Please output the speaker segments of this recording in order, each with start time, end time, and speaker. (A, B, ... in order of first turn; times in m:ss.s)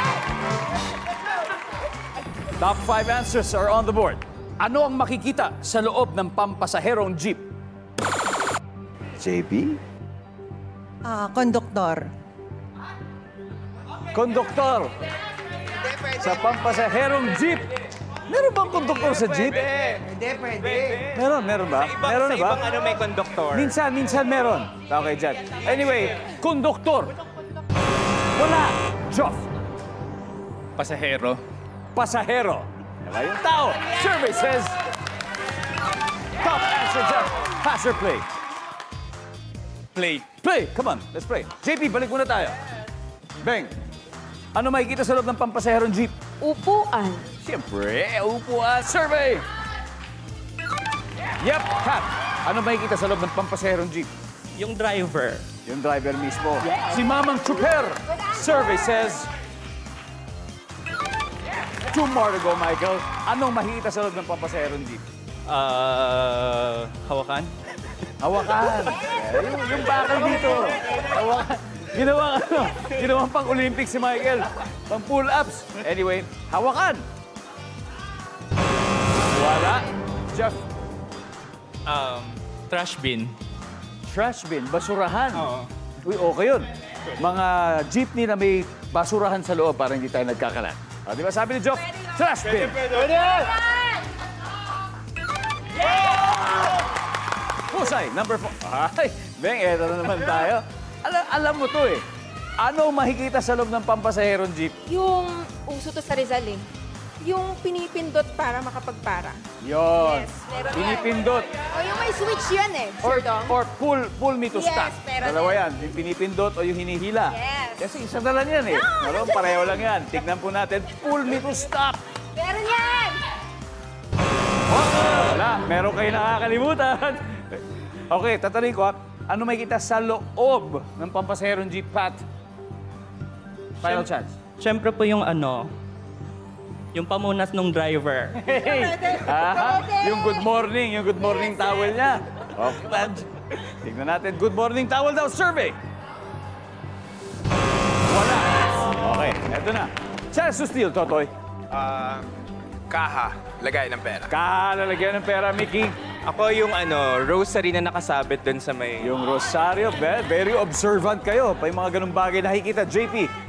0:02.6-0:07.5 A
0:09.2-0:09.8 A
0:11.0-0:12.1 B
0:14.1-0:14.9 A
0:16.0-0:19.8 A
0:19.7-0:20.0 C
0:19.9-0:21.0 B
0:21.0-0:22.7 A
0:21.9-0:23.7 C
0:22.0-0:23.5 D
0:23.5-0:27.1 A
0:28.3-0:29.5 A
0:30.8-0:31.4 C
0:30.8-0:31.4 D
0:31.9-0:34.8 A
0:36.4-0:38.3 A
0:40.0-0:40.2 D
0:40.3-0:42.6 A
0:43.4-0:43.7 A
0:44.5-0:46.1 A
0:46.4-0:47.3 E
0:47.4-0:49.4 A
0:51.4-0:54.1 A
0:54.6-0:55.5 D
0:55.6-0:59.3 A
1:01.9-1:05.0 A
1:05.5-1:07.5 D
1:08.2-1:17.0 A
1:19.3-1:20.6 A
1:21.9-1:23.3 D
1:24.0-1:33.3 A
1:25.4-1:25.7 D
1:37.7-1:42.0 A
1:42.6-1:44.7 A
1:44.9-1:46.7 E
1:47.2-1:49.4 E
1:49.6-1:51.5 A
1:50.0-1:51.1 E
1:51.6-1:53.6 E
1:53.0-2:02.0 A
1:54.5-1:55.6 E
1:57.3-1:57.8 E
1:58.7-1:59.8 E
2:02.4-2:03.2 E
2:04.7-2:12.2 A
2:13.8-2:15.7 D
2:13.8-2:14.4 A
2:16.9-2:18.5 D
2:18.4-2:25.8 A
2:28.1-2:31.3 A
2:31.7-2:32.3 C
2:32.9-2:34.3 C
2:34.3-2:36.0 A
2:36.3-2:39.1 C
2:36.3-2:39.1 D
2:39.0-2:43.3 A